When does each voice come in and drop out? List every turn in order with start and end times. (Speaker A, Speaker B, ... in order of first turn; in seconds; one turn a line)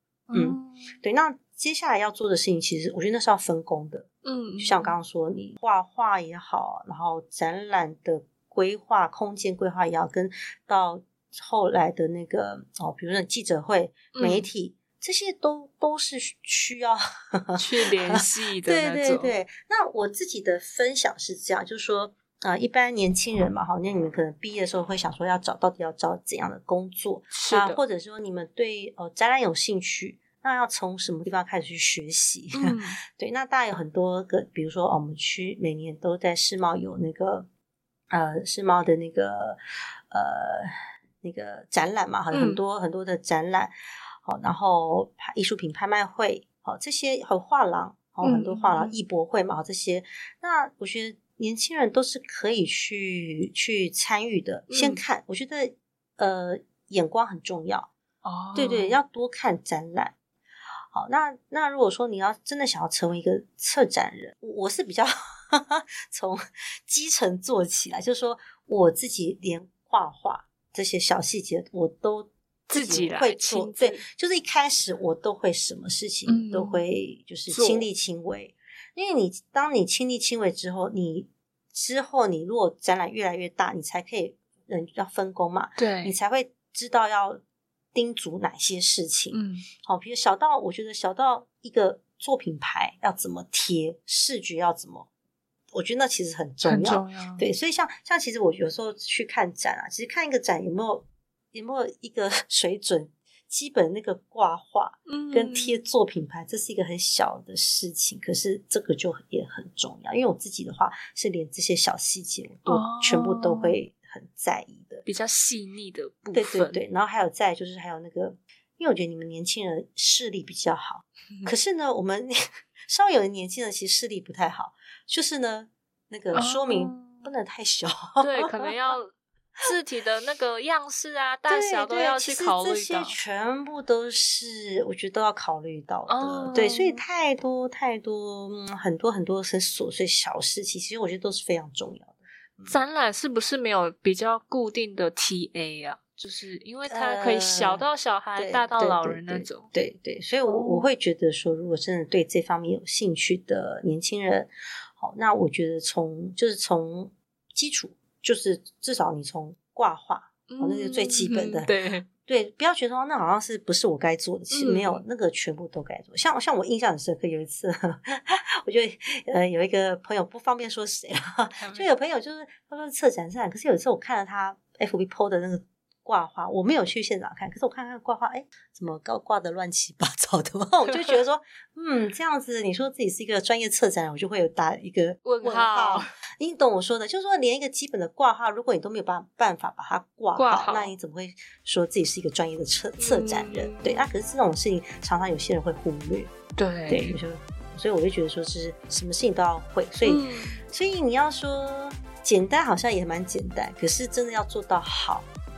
Speaker A: 0.3-0.9
Speaker B: 0.3-4.1
Speaker A: 4.2-5.0
Speaker B: 4.6-37.5
Speaker A: 14.1-14.4
Speaker A: 17.6-19.3
Speaker A: 27.3-27.8
Speaker A: 32.5-33.0
Speaker B: 38.1-39.6
Speaker B: 40.1-43.7
Speaker A: 42.3-42.6
Speaker B: 44.2-57.9
Speaker A: 48.2-49.0
Speaker A: 54.7-55.0
Speaker A: 58.2-59.0
Speaker B: 58.5-60.1
Speaker B: 60.9-87.4
Speaker A: 72.7-74.0
Speaker A: 76.2-76.8
Speaker A: 77.5-77.9
Speaker A: 85.8-86.1
Speaker B: 87.9-95.1
Speaker A: 89.3-89.7
Speaker B: 95.7-115.0
Speaker A: 96.6-97.4
Speaker A: 105.1-105.8
Speaker A: 112.7-113.8
Speaker A: 115.0-116.8
Speaker B: 116.3-122.4
Speaker B: 122.9-128.9
Speaker A: 126.3-127.2
Speaker A: 128.2-133.2
Speaker B: 131.5-142.8
Speaker A: 136.1-137.0
Speaker A: 142.7-149.7
Speaker B: 146.9-196.3
Speaker A: 150.4-150.9
Speaker A: 160.5-162.1
Speaker A: 164.5-165.0
Speaker A: 171.6-171.9
Speaker A: 185.2-186.1
Speaker A: 190.3-190.9
Speaker A: 193.0-194.0
Speaker A: 196.6-197.2
Speaker B: 196.9-205.3
Speaker A: 200.0-200.6